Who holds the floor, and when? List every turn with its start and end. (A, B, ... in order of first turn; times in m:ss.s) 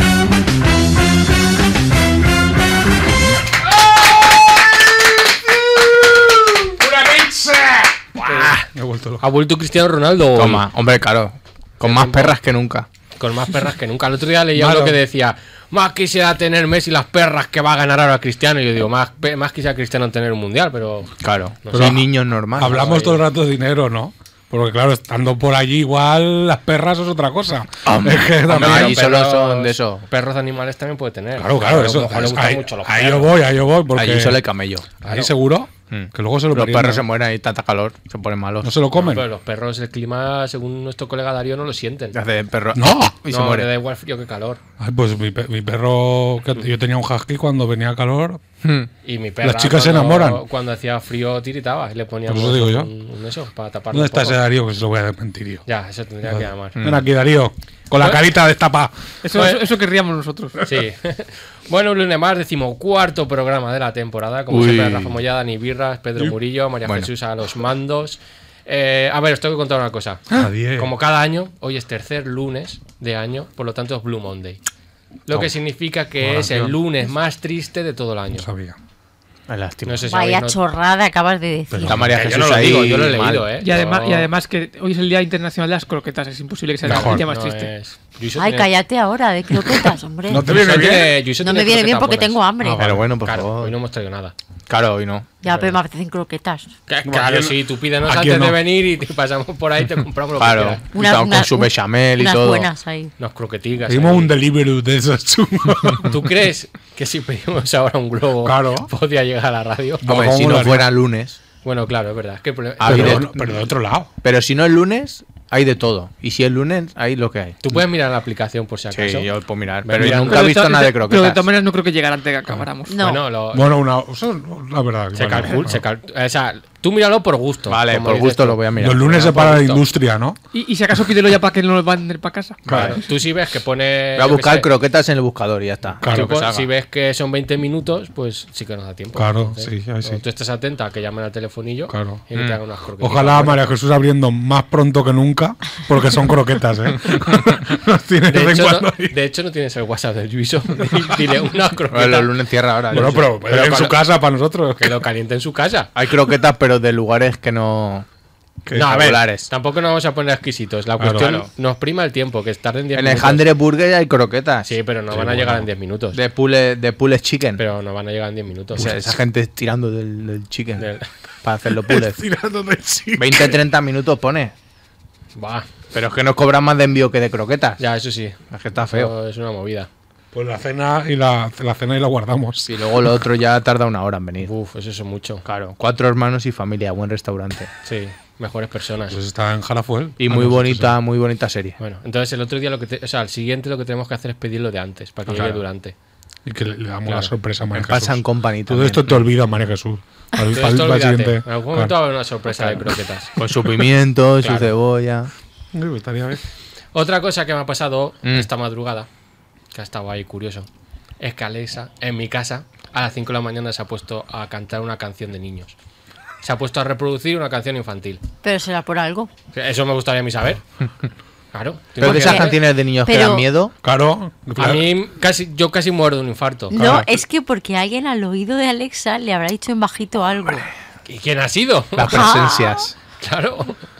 0:06.5-0:09.2 A
0:08.2-0:08.6 B
0:09.2-0:10.7 B
0:10.3-0:12.9 C
0:11.8-0:12.4 B
0:13.2-0:21.1 B
0:14.5-0:15.0 A
0:21.2-0:22.9 C
0:21.6-0:22.0 B
0:21.7-0:29.1 A
0:22.6-0:23.2 B
0:27.8-0:30.0 C
0:28.5-0:33.3 B
0:31.4-0:34.5 A
0:33.9-0:34.8 C
0:35.0-0:37.1 A
0:35.0-0:35.3 B
0:35.9-0:38.7 C
0:38.6-0:39.2 A
0:39.0-0:42.2 B
0:42.1-0:43.7 C
0:42.7-0:43.1 A
0:43.3-0:44.6 B
0:44.8-0:48.4 A
0:48.6-0:48.9 C
0:49.0-0:54.4 B
0:49.4-0:50.4 A
0:52.3-0:52.9 A
0:53.9-0:55.6 A
0:55.6-0:56.8 B
0:56.3-0:59.0 A
0:56.8-0:57.0 C
0:59.2-1:00.6 D
0:59.3-0:59.6 B
1:00.6-1:14.6 B
1:04.5-1:05.2 C
1:10.3-1:10.9 A
1:15.3-1:18.4 B
1:16.2-1:16.8 A
1:18.3-1:18.8 A
1:19.5-1:20.1 C
1:19.8-1:20.6 B
1:20.1-1:22.1 E
1:21.7-1:22.1 A
1:21.8-1:23.4 C
1:22.0-1:24.3 B
1:23.6-1:27.7 D
1:26.8-1:27.2 A
1:26.8-1:28.7 B
1:28.3-1:30.5 E
1:30.3-1:31.2 A
1:30.4-1:34.3 B
1:31.4-1:32.8 E
1:32.6-1:33.0 A
1:32.7-1:33.7 C
1:34.7-1:35.3 C
1:35.4-1:36.7 E
1:35.4-1:35.8 B
1:36.9-1:40.8 B
1:37.0-1:38.6 A
1:40.4-1:42.7 C
1:40.9-1:43.1 E
1:43.2-1:44.3 B
1:43.9-1:46.3 A
1:46.0-1:50.3 B
1:48.4-1:48.9 A
1:50.0-1:50.9 A
1:50.0-1:51.4 C
1:51.6-1:53.2 B
1:52.8-1:53.6 C
1:52.8-1:54.1 A
1:54.2-1:57.5 C
1:57.6-1:59.3 B
1:58.9-2:01.5 C
1:59.8-2:00.5 B
2:00.0-2:03.1 D
2:02.9-2:03.2 E
2:03.0-2:03.7 B
2:03.5-2:05.8 A
2:05.1-2:09.8 B
2:07.7-2:09.3 C
2:08.8-2:10.4 A
2:10.5-2:12.6 D
2:12.6-2:13.0 C
2:12.7-2:13.0 A
2:12.7-2:14.7 B
2:14.2-2:16.7 C
2:16.0-2:16.3 A
2:16.0-2:23.6 B
2:19.1-2:20.2 A
2:21.9-2:22.2 A
2:23.0-2:29.1 A
2:28.3-2:32.3 B
2:31.9-2:33.8 C
2:32.9-2:35.0 A
2:33.4-2:34.0 B
2:34.8-2:35.9 B
2:35.9-2:38.0 C
2:38.7-2:39.1 A
2:38.7-2:43.4 B
2:38.7-2:39.5 C
2:41.0-2:41.3 A
2:41.2-2:41.5 C
2:42.9-2:47.6 C
2:44.6-2:46.2 B
2:47.6-2:48.9 B
2:48.7-2:50.9 C
2:48.8-2:49.0 A
2:50.8-2:51.1 B
2:51.4-2:52.2 C
2:51.8-2:53.6 A
2:53.2-2:54.5 C
2:55.4-2:55.7 B
2:55.9-2:57.8 C
2:57.8-2:59.9 B
2:58.5-2:59.1 C
3:00.3-3:02.8 A
3:02.7-3:04.5 C
3:04.4-3:05.4 B
3:05.4-3:07.7 C
3:07.8-3:09.2 B
3:09.1-3:11.0 A
3:10.2-3:11.8 C
3:11.8-3:15.9 B
3:15.3-3:15.6 C
3:16.4-3:21.9 A
3:17.1-3:17.3 B
3:17.7-3:19.3 C
3:20.5-3:23.4 B
3:23.4-3:25.3 C
3:24.4-3:24.7 B
3:25.7-3:26.4 A
3:26.9-3:29.1 B
3:29.7-3:30.7 B
3:31.2-3:35.7 B
3:36.4-3:38.2 B
3:38.4-3:39.3 E
3:39.5-3:40.6 B
3:41.5-3:42.6 B
3:42.0-3:43.7 C
3:42.0-3:43.4 E
3:43.8-3:44.9 A
3:44.6-3:46.7 B
3:46.7-3:50.7 E
3:46.7-3:47.2 C
3:51.1-3:52.4 B
3:52.0-3:52.9 C
3:52.0-3:52.9 E
3:53.2-3:53.8 B